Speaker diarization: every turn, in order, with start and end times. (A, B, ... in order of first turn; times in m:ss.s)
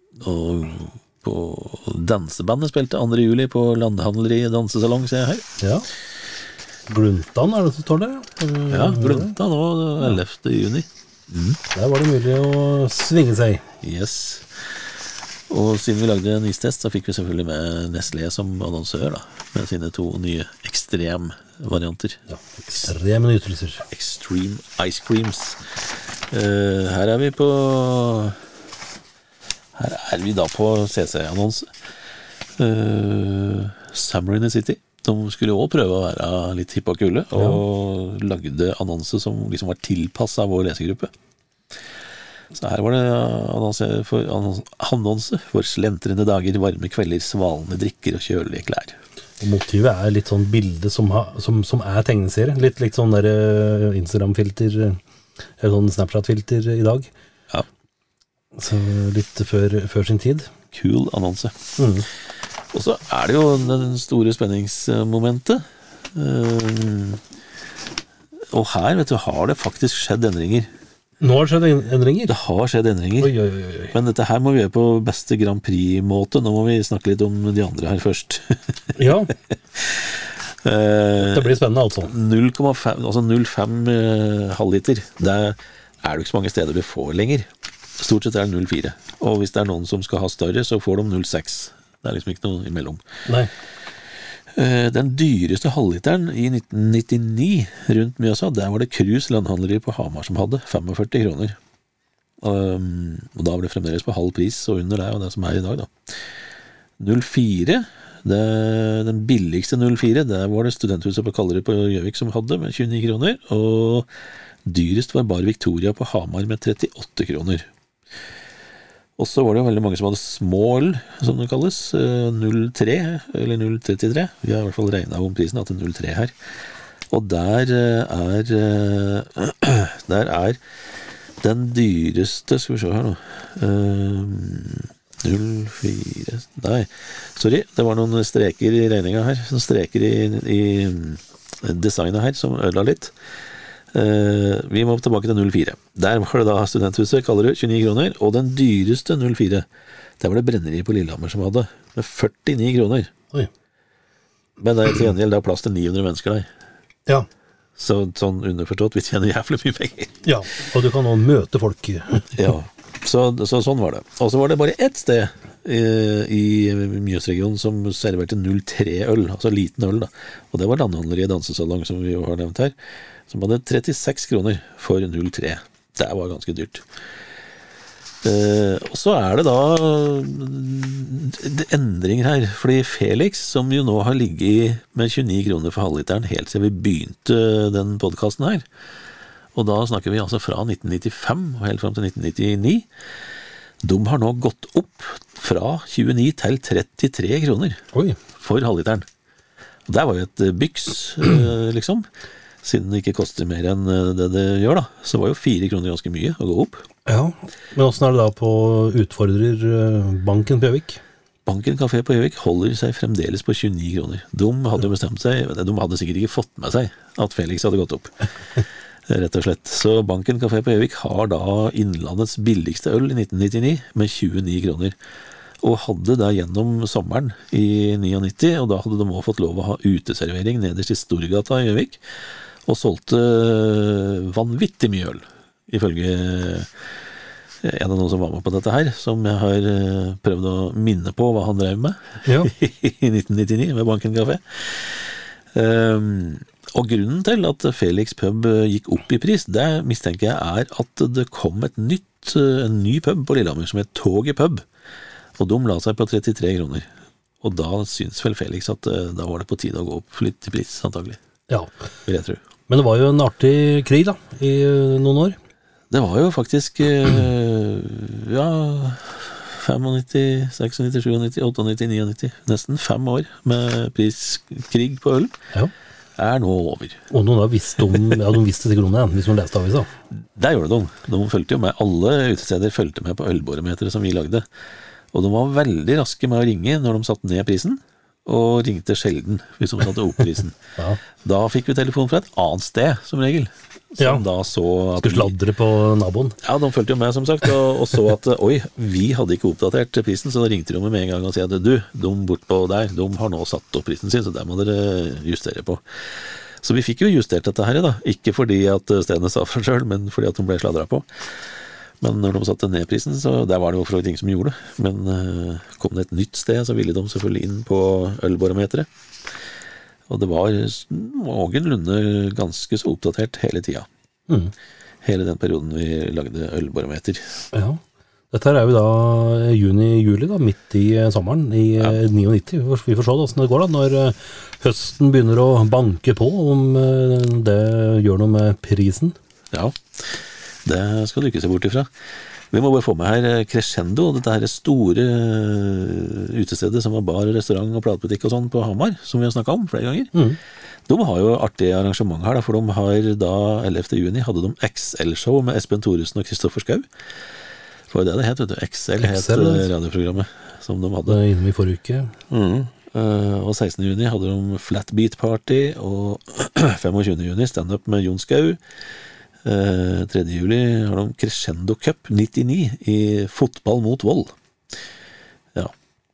0:00.2-0:05.5 A
0:05.6-0:05.9 B
0:06.9-0:09.4 B
0:08.7-0:11.6 A
0:11.7-0:13.6 B
0:13.8-0:14.7 A
0:15.5-0:22.2 A
0:22.3-0:23.9 B
0:23.9-0:28.4 A
0:29.7-0:31.7 A
0:32.6-0:41.1 A
0:37.3-0:37.6 B
0:42.5-0:49.0 A
0:49.4-0:55.0 B
0:55.6-0:57.1 B
0:58.6-1:00.5 B
1:00.7-1:01.6 A
1:01.8-1:02.1 B
1:02.7-1:07.2 A
1:08.4-1:10.7 A
1:11.2-1:12.4 B
1:12.3-1:13.4 A
1:13.2-1:14.0 B
1:13.9-1:33.0 A
1:19.0-1:19.3 B
1:21.2-1:22.1 B
1:34.5-1:41.6 A
1:42.4-1:46.2 A
1:47.0-1:54.1 A
1:54.6-1:57.7 A
1:59.2-2:06.4 A
2:07.1-2:10.6 A
2:11.4-2:23.1 A
2:23.9-2:29.7 A
2:30.2-2:33.1 A
2:34.6-2:36.5 A
2:37.8-2:40.2 A
2:40.2-2:42.3 B
2:42.3-2:52.8 A
2:53.3-2:56.8 A
2:58.2-3:08.7 A
3:09.5-3:12.9 A
3:13.8-3:17.9 A
3:17.9-3:18.2 B
3:18.4-3:19.1 A
3:19.9-3:22.1 A
3:22.6-3:26.8 A
3:27.1-3:31.0 B
3:31.4-3:38.1 A
3:39.1-3:45.0 A
3:45.6-3:52.0 A
3:52.7-3:56.7 A
3:57.6-4:14.7 A
4:02.2-4:02.5 B
4:15.4-4:21.2 A
4:22.1-4:22.4 A
4:22.7-4:25.4 B
4:25.9-4:35.4 A
4:36.2-4:37.0 A
4:37.1-4:39.9 B
4:40.2-4:44.5 A
4:45.1-4:50.6 A
4:50.8-4:51.0 B
4:51.1-4:55.3 A
4:55.0-4:56.4 B
4:56.4-5:11.5 A
5:12.0-5:18.9 A
5:20.1-5:23.9 A
5:24.3-5:24.5 B
5:25.0-5:27.4 A
5:27.5-5:39.2 B
5:39.5-5:41.9 A
5:42.5-5:50.1 A
5:50.9-5:56.9 A
5:57.9-6:01.2 A
5:59.0-5:59.7 B
6:01.1-6:02.1 B
6:02.3-6:08.6 A
6:09.4-6:14.4 A